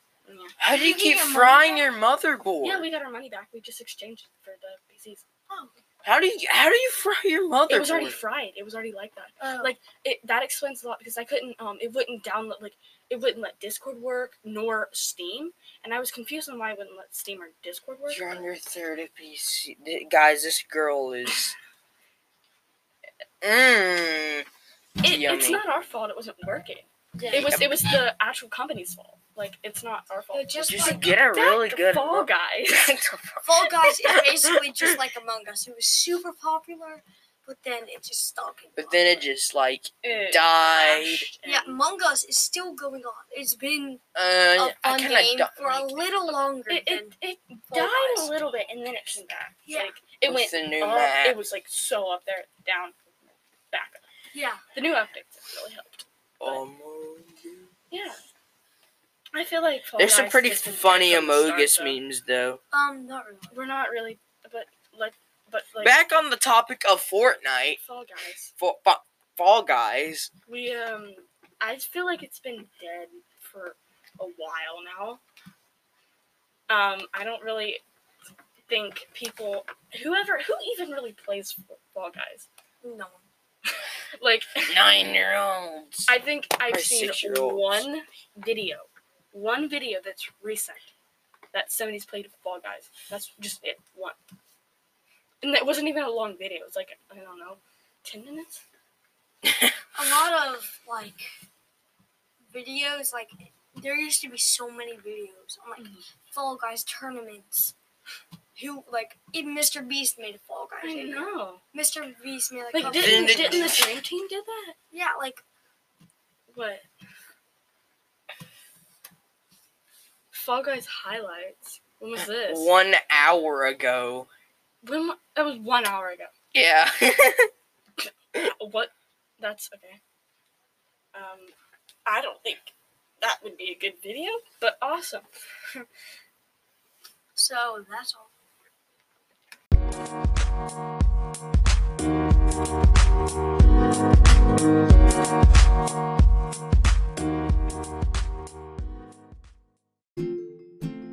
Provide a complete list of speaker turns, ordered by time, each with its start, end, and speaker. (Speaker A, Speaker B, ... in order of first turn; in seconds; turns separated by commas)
Speaker A: 0.2-0.6, Speaker B: 0.6-2.9, Speaker C: 0.7-1.9, Speaker A: 2.6-5.2, Speaker B: 6.0-8.2, Speaker A: 7.7-18.3, Speaker C: 9.4-9.8, Speaker B: 18.1-21.5, Speaker B: 23.4-24.5, Speaker A: 25.0-33.0, Speaker B: 25.0-25.6, Speaker C: 27.1-27.7, Speaker B: 27.3-27.9, Speaker C: 30.3-31.2, Speaker B: 30.6-34.5, Speaker C: 33.4-39.3, Speaker B: 38.8-41.3, Speaker A: 40.0-41.8, Speaker C: 41.4-47.2, Speaker B: 44.1-46.2, Speaker A: 46.7-54.0, Speaker C: 47.7-48.3, Speaker C: 49.7-50.0, Speaker B: 50.2-51.4, Speaker C: 54.3-54.6, Speaker A: 54.7-56.6, Speaker B: 56.4-57.7, Speaker A: 57.9-58.2, Speaker A: 59.3-62.0, Speaker B: 60.0-62.6, Speaker C: 62.7-63.6, Speaker A: 63.5-66.1, Speaker B: 65.8-67.8, Speaker A: 67.8-68.5, Speaker B: 68.6-70.3, Speaker A: 70.5-75.2, Speaker A: 76.7-77.8, Speaker A: 78.7-82.5, Speaker C: 82.8-83.3, Speaker A: 83.7-84.8, Speaker B: 84.7-86.2, Speaker A: 86.1-90.9, Speaker B: 86.7-87.9, Speaker A: 91.5-94.2, Speaker A: 95.4-98.6, Speaker B: 99.4-99.8, Speaker C: 100.0-101.3, Speaker C: 102.5-107.8, Speaker A: 105.8-106.0, Speaker C: 108.5-113.8, Speaker A: 110.8-111.6, Speaker A: 112.7-114.8, Speaker B: 113.0-113.9, Speaker C: 114.9-115.4, Speaker A: 116.5-116.8, Speaker A: 120.3-122.7, Speaker B: 122.2-124.3, Speaker A: 124.8-126.3, Speaker B: 126.5-127.5, Speaker A: 128.0-130.0, Speaker A: 131.1-131.5, Speaker A: 132.1-135.9, Speaker C: 137.4-138.3